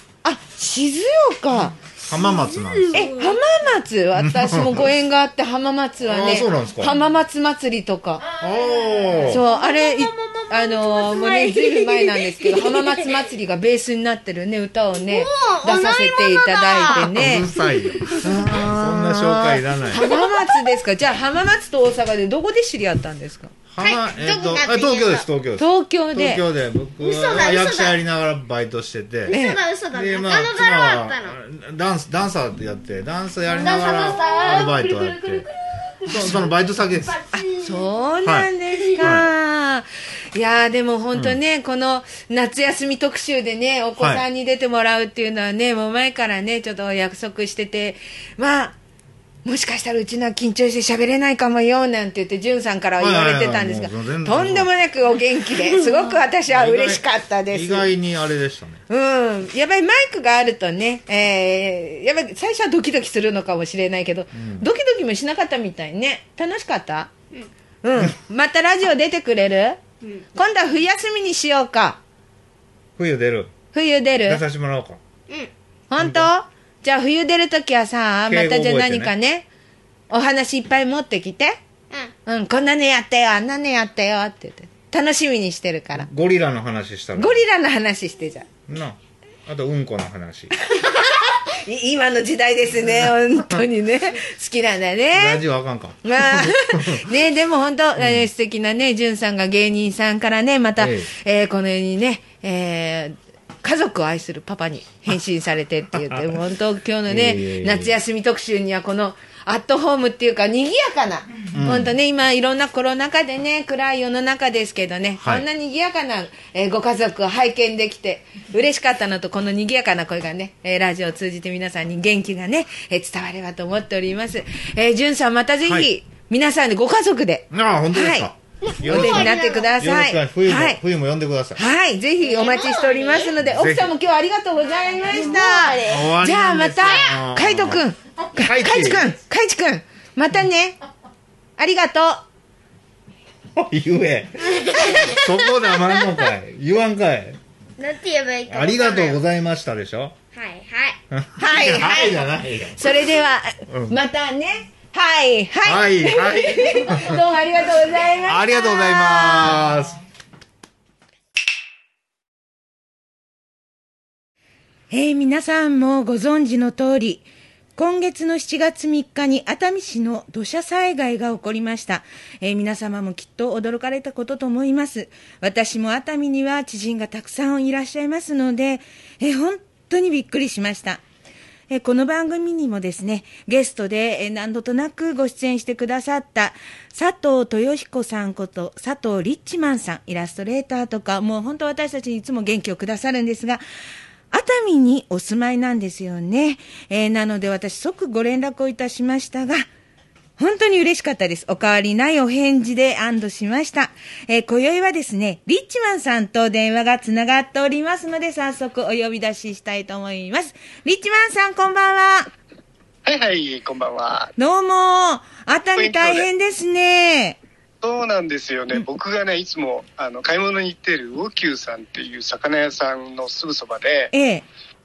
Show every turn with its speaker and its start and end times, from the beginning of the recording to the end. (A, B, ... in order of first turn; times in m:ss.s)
0:00.2-0:01.8 A
0:02.0-0:03.1 B
0:02.1-0:03.4 C
0:02.9-0:08.3 A
0:04.2-0:04.9 B
0:06.0-0:06.9 B
0:08.3-0:13.2 C
0:08.4-0:09.4 B
0:09.2-0:17.5 A
0:15.0-0:18.2 C
0:16.9-0:20.0 B
0:18.2-0:23.5 A
0:19.9-0:20.7 C
0:23.7-0:29.4 B
0:23.8-0:25.2 C
0:25.6-0:26.4 A
0:27.0-0:28.0 C
0:29.3-0:31.4 C
0:29.3-0:29.6 A
0:29.9-0:35.4 B
0:33.4-0:37.8 C
0:36.1-0:37.2 B
0:37.4-0:48.8 A
0:38.2-0:39.3 B
0:44.0-0:44.2 B
0:49.4-0:57.9 A
0:53.0-0:54.7 B
0:56.5-0:58.8 B
0:58.9-1:07.1 A
1:04.3-1:04.7 B
1:07.8-1:09.8 A
1:10.0-1:10.3 C
1:10.3-1:12.0 A
1:13.0-1:13.5 B
1:13.7-1:14.4 A
1:14.3-1:15.0 B
1:15.9-1:19.5 A
1:16.0-1:16.3 B
1:18.3-1:19.1 B
1:20.1-1:21.6 A
1:22.2-1:26.1 A
1:25.9-1:27.4 B
1:27.2-1:28.5 A
1:28.7-1:30.5 B
1:30.7-1:35.4 A
1:33.4-1:33.6 B
1:35.1-1:37.1 B
1:36.0-2:08.3 A
1:38.0-1:38.3 B
1:40.8-1:41.1 B
1:47.1-1:47.9 B
1:51.5-1:51.9 B
1:55.2-1:55.4 B
2:07.5-2:11.6 B
2:08.6-2:09.8 C
2:08.8-2:10.8 A
2:11.5-2:20.8 A
2:12.2-2:13.3 C
2:13.4-2:13.9 B
2:14.6-2:16.1 C
2:15.8-2:17.8 B
2:18.3-2:19.1 B
2:21.6-2:22.2 A
2:23.6-2:27.4 B
2:24.5-2:25.0 C
2:24.8-2:25.2 A
2:27.8-2:29.2 C
2:28.5-2:30.2 B
2:30.3-2:31.0 C
2:31.1-2:32.8 B
2:31.4-2:32.2 A
2:32.7-2:39.7 A
2:33.7-2:34.0 B
2:35.6-2:37.2 B
2:38.2-2:40.0 B
2:44.9-3:01.0 A
3:01.7-3:13.6 A
3:14.3-3:19.6 A
3:20.4-3:32.3 A
3:33.0-3:34.3 D
3:34.4-3:37.4 A
3:35.8-3:36.3 D
3:37.8-3:44.1 D
3:44.1-3:44.4 A